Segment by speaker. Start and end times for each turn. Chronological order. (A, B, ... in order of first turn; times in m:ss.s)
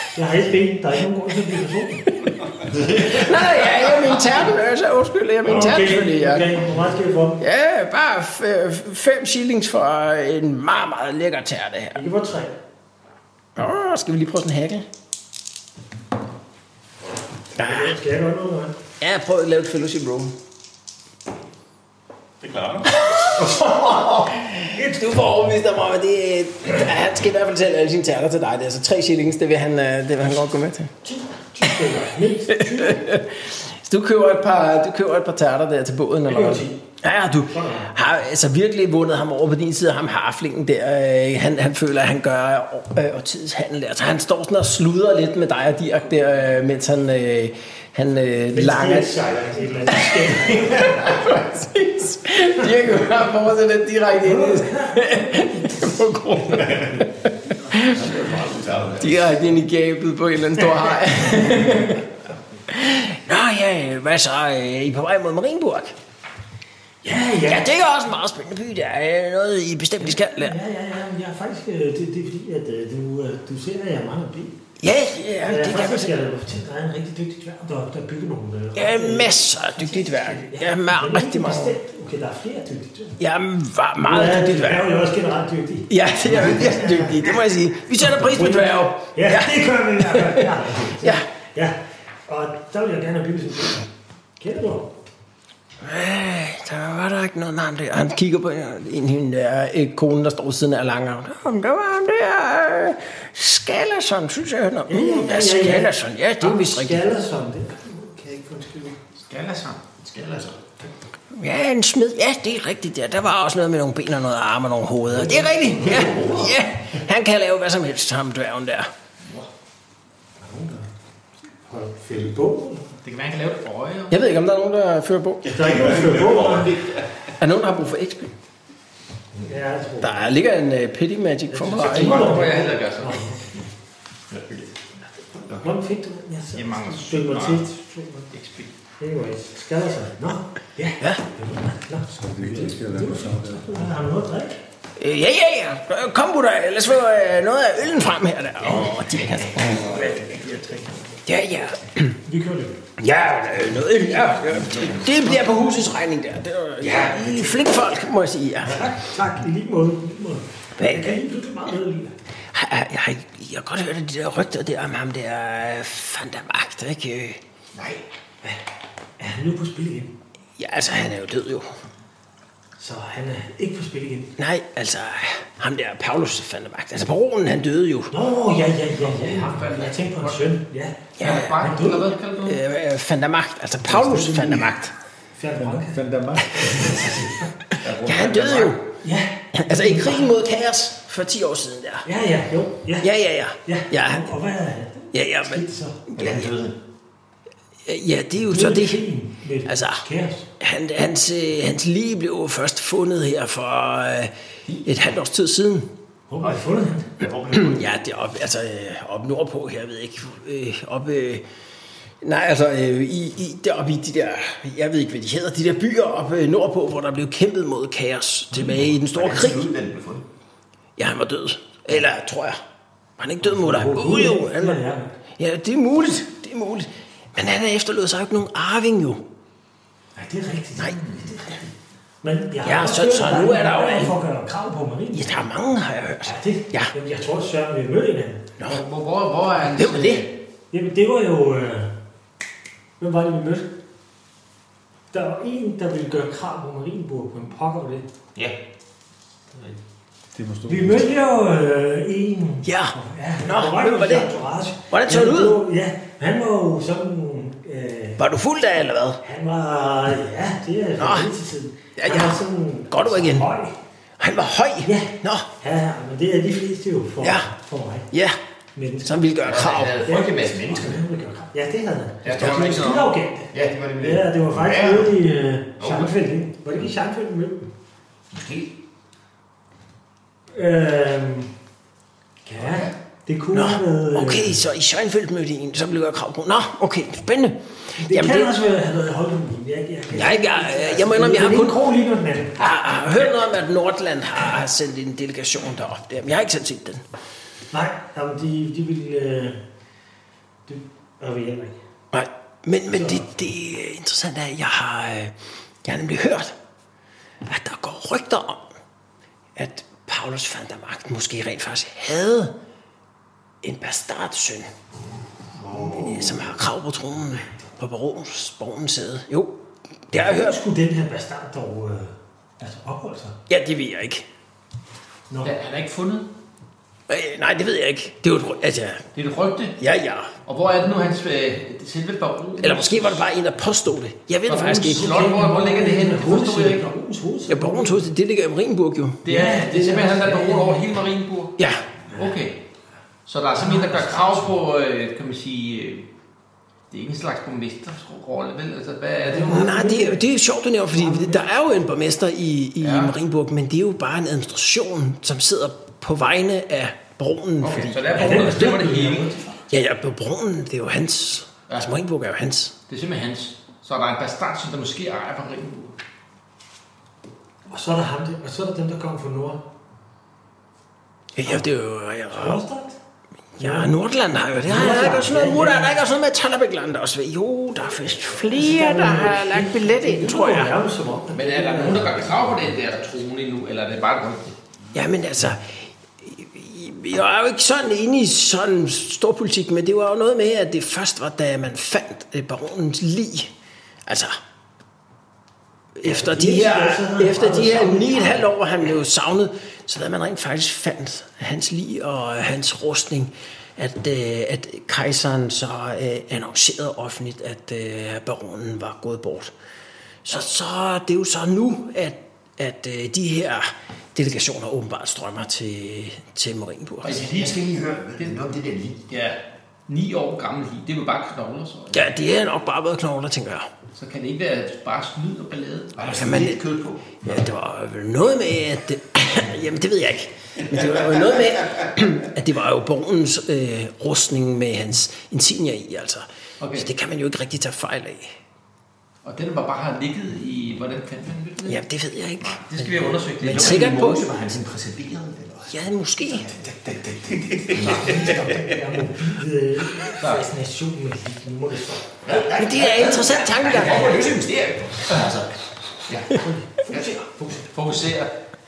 0:00.2-0:03.1 A
0:02.2-0:06.5 B
0:05.4-0:07.4 A
0:07.4-0:12.0 B
0:12.0-0:12.6 A
0:13.6-0:14.9 B
0:17.6-0:18.0 B
0:17.6-0:18.8 A
0:19.0-0:20.3 B
0:22.4-0:23.0 C
0:22.9-0:31.0 B
0:31.0-0:33.1 A
0:32.6-0:49.2 B
0:36.3-0:36.8 A
0:37.5-0:37.9 A
0:48.5-0:51.2 A
0:49.9-0:58.1 B
0:54.2-0:55.7 A
0:57.8-0:59.4 D
0:59.0-1:02.0 B
1:02.7-1:05.9 B
1:07.0-1:07.7 A
1:07.4-1:10.6 B
1:10.3-1:14.6 A
1:14.8-1:16.1 B
1:15.4-1:23.2 A
1:18.8-1:21.8 B
1:23.2-1:24.9 B
1:24.0-1:27.4 A
1:25.9-1:30.5 B
1:28.1-1:35.0 A
1:31.0-1:31.3 B
1:35.8-1:47.0 B
1:44.9-1:49.0 A
1:49.2-1:49.8 E
1:50.0-1:50.6 D
1:51.3-1:58.9 B
1:55.2-1:56.3 A
1:55.8-1:56.6 D
1:59.2-1:59.5 E
2:00.4-2:00.9 A
2:01.7-2:02.9 A
2:03.0-2:04.2 E
2:04.1-2:05.5 B
2:05.5-2:07.0 C
2:05.5-2:06.8 A
2:07.4-2:08.3 B
2:09.4-2:10.2 A
2:10.0-2:12.4 B
2:11.7-2:13.6 A
2:11.7-2:13.4 E
2:14.3-2:14.7 D
2:15.3-2:15.7 D
2:15.6-2:18.3 A
2:16.5-2:17.7 E
2:18.3-2:18.7 E
2:19.0-2:24.6 A
2:22.1-2:23.9 F
2:25.0-2:30.0 B
2:29.1-2:30.2 A
2:29.6-2:31.1 D
2:31.3-2:32.2 B
2:32.2-2:32.8 A
2:33.0-2:38.9 B
2:34.8-2:35.2 D
2:36.8-2:37.8 A
2:38.6-2:42.2 A
2:40.8-2:41.2 B
2:42.5-2:47.4 B
2:49.2-2:50.2 A
2:50.6-2:51.7 B
2:52.8-2:54.3 A
2:54.4-2:58.2 B
2:58.1-3:02.1 A
2:59.0-3:00.5 E
3:01.2-3:04.9 B
3:01.2-3:02.6 E
3:03.9-3:04.8 A
3:05.4-3:06.0 A
3:05.6-3:07.3 F
3:06.6-3:07.5 A
3:07.7-3:08.9 B
3:07.8-3:08.8 D
3:09.0-3:10.3 A
3:09.5-3:12.1 B
3:12.1-3:13.1 A
3:13.0-3:14.3 B
3:13.6-3:16.0 A
3:15.1-3:15.6 B
3:16.2-3:16.8 D
3:16.2-3:16.5 B
3:17.9-3:19.0 B
3:18.5-3:20.5 A
3:19.7-3:20.1 B
3:20.6-3:24.3 B
3:24.8-3:25.9 B
3:26.3-3:27.1 A
3:26.4-3:27.9 D
3:27.5-3:31.4 B
3:32.2-3:39.7 B
3:38.5-3:40.3 D
3:41.0-3:42.6 B
3:43.2-3:44.8 B
3:43.4-3:45.2 A
3:45.4-3:49.3 B
3:50.2-3:55.3 A
3:52.6-3:54.1 B
3:55.1-3:56.9 B
3:56.2-3:58.5 A
3:58.7-4:00.3 E
3:59.8-4:00.3 B
4:00.7-4:01.9 A
4:03.0-4:03.7 A
4:05.1-4:08.1 A
4:10.3-4:11.1 F
4:10.7-4:18.2 A
4:12.6-4:14.3 B
4:14.9-4:15.6 B
4:18.2-4:19.2 B
4:19.2-4:23.8 A
4:21.0-4:21.3 B
4:22.0-4:22.4 B
4:22.9-4:23.5 B
4:24.2-4:25.5 B
4:24.8-4:28.1 A
4:27.2-4:27.5 B
4:28.1-4:28.4 B
4:28.8-4:37.7 A
4:29.0-4:30.0 B
4:29.4-4:31.0 D
4:29.5-4:30.3 E
4:32.2-4:32.9 D
4:32.3-4:33.1 E
4:33.5-4:35.2 D
4:35.8-4:36.1 D
4:38.4-4:38.7 D
4:40.5-4:41.5 A
4:42.5-4:44.6 A
4:42.6-4:42.9 D
4:43.5-4:48.5 B
4:48.0-4:52.7 A
4:50.1-4:51.8 B
4:52.6-4:57.0 B
4:57.7-4:59.6 A
5:00.7-5:01.8 A
5:02.1-5:06.6 B
5:02.9-5:03.2 A
5:07.4-5:08.7 B
5:09.6-5:12.5 B
5:13.6-5:14.7 B
5:15.6-5:16.2 A
5:15.8-5:19.6 B
5:20.1-5:20.6 B
5:20.1-5:23.4 A
5:23.5-5:24.2 B
5:25.3-5:25.5 A
5:25.4-5:26.3 E
5:27.1-5:29.1 B
5:29.2-5:29.8 E
5:29.8-5:30.4 B
5:30.5-5:33.2 E
5:32.6-5:35.1 B
5:34.5-5:36.9 E
5:34.9-5:38.1 A
5:37.5-5:39.3 B
5:39.2-5:41.6 E
5:39.3-5:40.8 A
5:41.6-5:41.9 B
5:42.1-5:42.6 E
5:43.3-5:46.1 E
5:43.5-5:44.5 A
5:46.9-5:49.7 E
5:49.2-5:50.3 A
5:49.3-5:58.6 B
5:50.9-5:51.5 A
5:52.8-5:53.1 E
5:57.6-5:59.4 E
5:58.2-5:59.6 A
5:59.7-6:02.8 B
6:02.9-6:06.0 E
6:07.7-6:09.6 A
6:11.4-6:12.6 B
6:12.3-6:13.0 A
6:13.6-6:20.8 B
6:13.6-6:13.9 A
6:14.6-6:16.0 A
6:18.5-6:22.4 A
6:21.3-6:24.5 E
6:24.9-6:33.5 B
6:34.1-6:34.4 B
6:36.0-6:49.5 B
6:36.0-6:38.5 A
6:50.2-6:57.2 B
6:57.0-6:57.6 E
6:57.0-6:59.0 D
6:59.1-7:02.0 E
7:01.9-7:03.7 B
7:04.0-7:06.5 E
7:06.0-7:07.4 D
7:06.0-7:06.6 B
7:07.2-7:18.3 B
7:16.6-7:16.9 E
7:19.2-7:21.8 E
7:21.7-7:24.2 B
7:22.4-7:24.0 E
7:23.4-7:28.5 D
7:25.7-7:26.5 B
7:27.4-7:27.8 C
7:27.8-7:32.2 A
7:30.2-7:30.5 E
7:32.2-7:37.2 D
7:32.4-7:34.3 B
7:33.7-7:34.5 E
7:36.3-7:37.7 A
7:37.7-7:38.4 E